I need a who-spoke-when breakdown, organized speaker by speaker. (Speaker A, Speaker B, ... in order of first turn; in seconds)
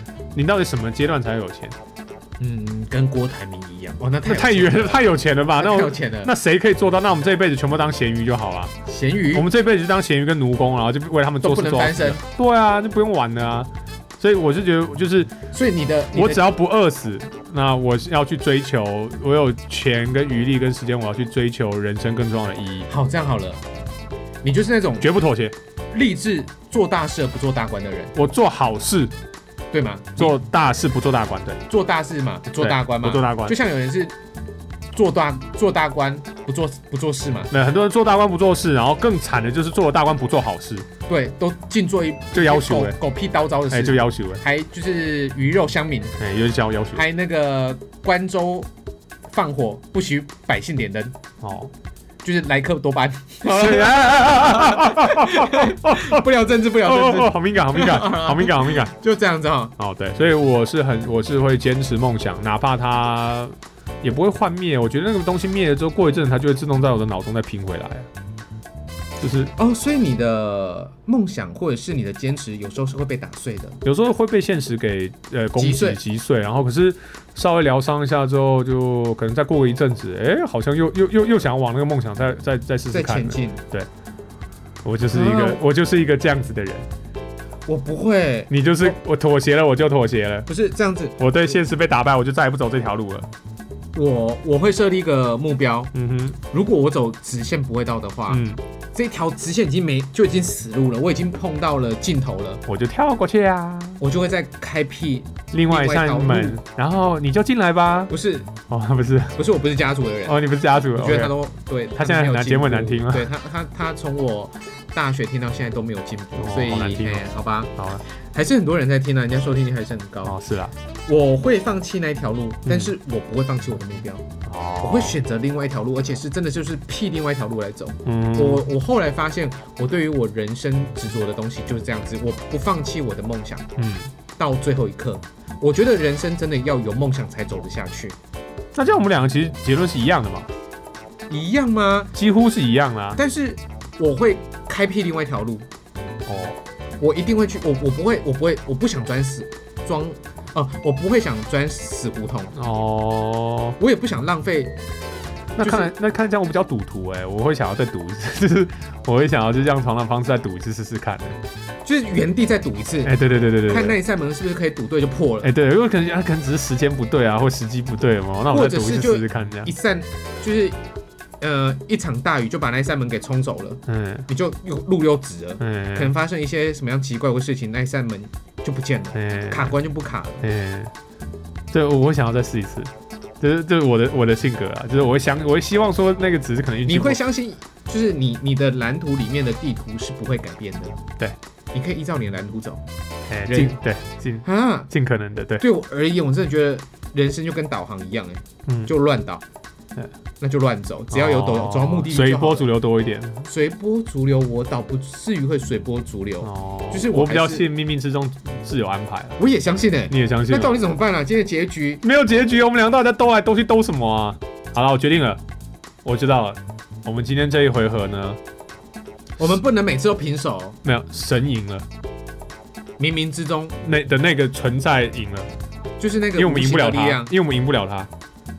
Speaker A: 0.3-1.8, 4.2-8.7, 9.3-15.3, 16.1-22.9, 25.0-25.5, 28.1-29.1, 30.2-31.6, 32.6-33.5, 37.5-40.9, 42.3-43.0, 43.7-44.4, 46.2-47.0, 51.4-51.7, 53.4-56.3, 56.8-58.9, 59.8-68.1, 69.2-69.5, 73.8-83.9, 84.8-86.8, 88.5-90.5, 91.2-93.3, 95.9-96.4, 98.3-98.6, 102.7-104.0, 105.5-108.1, 108.7-109.4, 110.2-111.3, 112.0-113.3, 116.3-118.0, 120.2-120.7, 122.7-122.9, 124.5-125.2, 128.0-128.7, 133.8-134.1, 138.7-140.5, 142.1-143.2, 146.2-146.6, 152.5-153.8, 155.5-161.4, 163.0-164.0, 165.4-169.7, 173.9-174.3, 175.6-176.1, 179.1-179.7, 180.4-180.9, 181.7-187.2, 193.3-195.6, 198.7-198.9, 201.1-203.4, 206.4-209.4, 210.1-210.8, 212.0-215.4, 216.0-218.4, 220.8-221.9, 223.8-225.5, 226.3-228.1
Speaker B: 2.4-6.3, 8.8-9.5, 11.4-12.2, 15.5-16.5, 22.9-23.6, 24.4-25.1, 25.9-28.1, 29.7-30.4, 31.7-34.1, 34.9-37.5, 41.1-46.1, 46.9-48.7, 49.3-51.2, 52.2-59.7, 69.6-73.8, 75.6-76.0, 82.9-83.6, 85.1-85.6, 87.7-89.0, 90.5-91.2, 93.9-95.9, 96.4-102.6, 104.0-106.6, 108.1-108.5, 109.3-110.4, 110.9-120.3, 121.1-124.3, 124.8-133.7, 134.4-138.2, 141.3-142.1, 143.2-145.7, 147.0-152.5, 153.8-154.7, 155.6-155.9, 161.8-165.5, 168.5-170.8, 171.4-180.4, 186.8-191.0, 191.7-192.8, 193.5-193.8, 194.4-194.9, 195.6-199.4, 200.4-202.7, 203.4-207.7, 209.4-212.0, 219.4-220.8, 223.0-223.8, 226.0-227.3